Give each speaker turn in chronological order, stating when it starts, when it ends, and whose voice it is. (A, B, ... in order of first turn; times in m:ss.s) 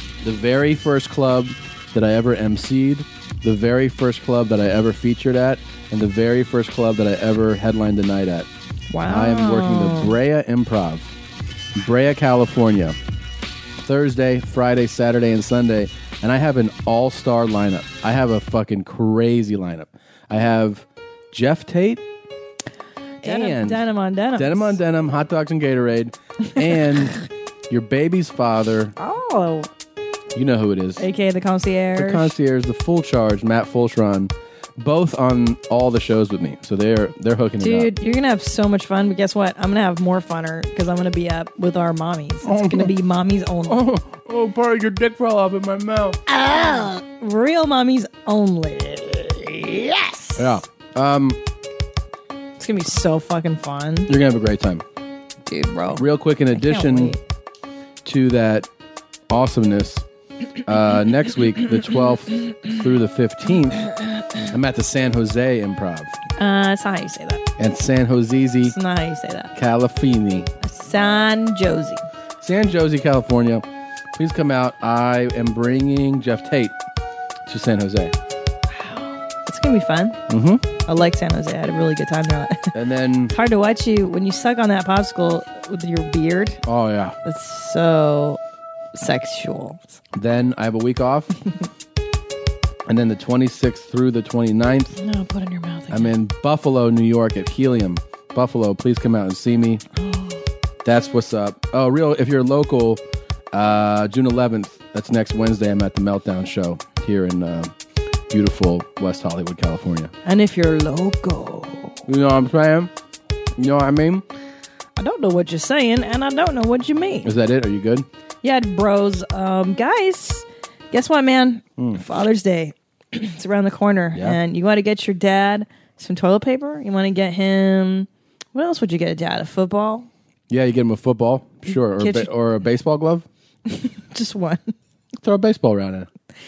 0:00.2-0:08.5 A
0:08.9-0:10.1 B
0:09.1-0:11.1 A
0:11.8-0:13.0 A
0:13.8-0:22.0 A
0:23.2-0:23.8 A
0:23.2-0:24.8 B
0:24.4-0:27.1 A
0:27.7-0:28.9 A
0:29.0-0:29.7 B
0:30.3-0:31.0 A
0:31.0-0:32.3 B
0:31.9-0:37.9 A
0:37.6-0:43.8 B
0:42.4-0:42.9 A
0:43.7-0:46.2 A
0:46.3-0:50.4 B
0:50.4-0:51.4 A
0:52.6-0:54.1 B
0:54.1-0:54.8 A
0:55.4-0:57.2 B
0:56.0-0:57.1 A
0:58.0-0:58.7 A
0:59.3-1:00.0 A
1:00.6-1:03.8 A
1:04.5-1:06.1 A
1:06.4-1:07.4 B
1:07.6-1:08.8 A
1:08.6-1:09.5 B
1:09.5-1:10.5 A
1:10.6-1:12.0 B
1:12.4-1:16.8 A
1:17.5-1:18.1 A
1:18.7-1:20.2 B
1:20.3-1:20.6 A
1:20.8-1:22.7 B
1:22.7-1:23.3 A
1:23.3-1:26.6 B
1:26.6-1:27.2 A
1:27.2-1:28.4 B
1:28.9-1:30.0 B
1:30.2-1:31.3 A
1:32.9-1:34.9 A
1:35.0-1:36.1 B
1:35.9-1:39.8 A
1:40.0-1:40.4 B
1:40.8-1:43.0 A
1:43.5-1:47.7 A
1:48.3-1:50.1 A
1:50.2-1:52.0 B
1:52.1-1:52.9 A
1:53.6-1:54.2 A
1:55.0-1:57.3 B
1:57.2-1:58.1 A
1:58.4-2:10.1 B
2:10.5-2:13.3 A
2:11.7-2:12.3 B
2:13.7-2:14.7 B
2:15.2-2:16.1 A